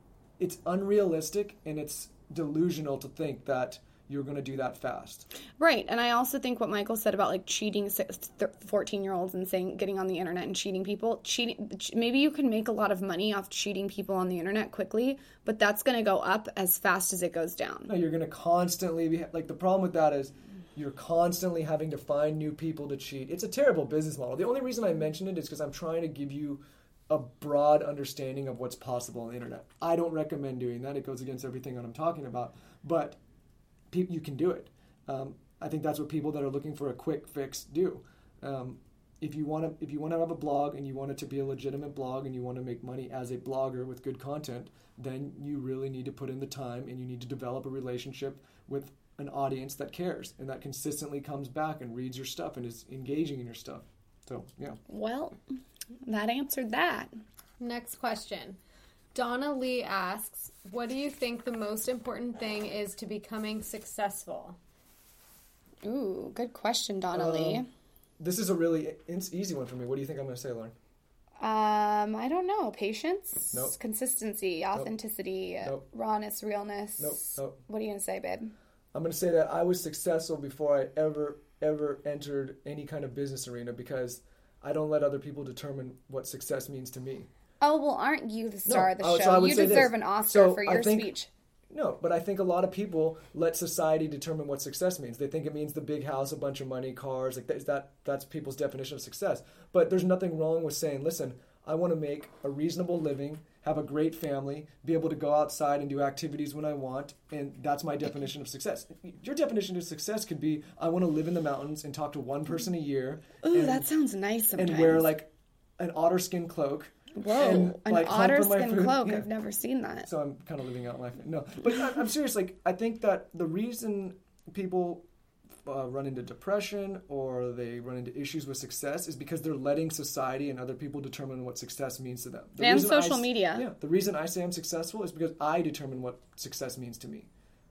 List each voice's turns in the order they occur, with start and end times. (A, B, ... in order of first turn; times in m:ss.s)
0:00.4-0:05.3 A
0:05.6-0:17.9 B
0:17.9-0:33.2 A
0:33.9-0:54.8 A
0:54.9-0:55.4 B
0:56.1-0:57.1 B
0:57.6-0:58.6 C
0:59.1-1:04.6 C
1:05.8-1:07.7 B
1:07.1-1:07.6 A
1:08.2-1:10.8 A
1:11.4-1:18.5 B
1:17.0-1:17.6 A
1:18.9-1:27.3 A
1:27.6-1:31.3 B
1:28.6-1:31.1 A
1:31.7-1:53.9 A
1:53.4-1:55.1 B
1:54.6-1:59.3 A
1:57.1-2:00.1 B
2:00.1-2:05.0 A
2:05.6-2:17.3 A
2:12.6-2:13.7 B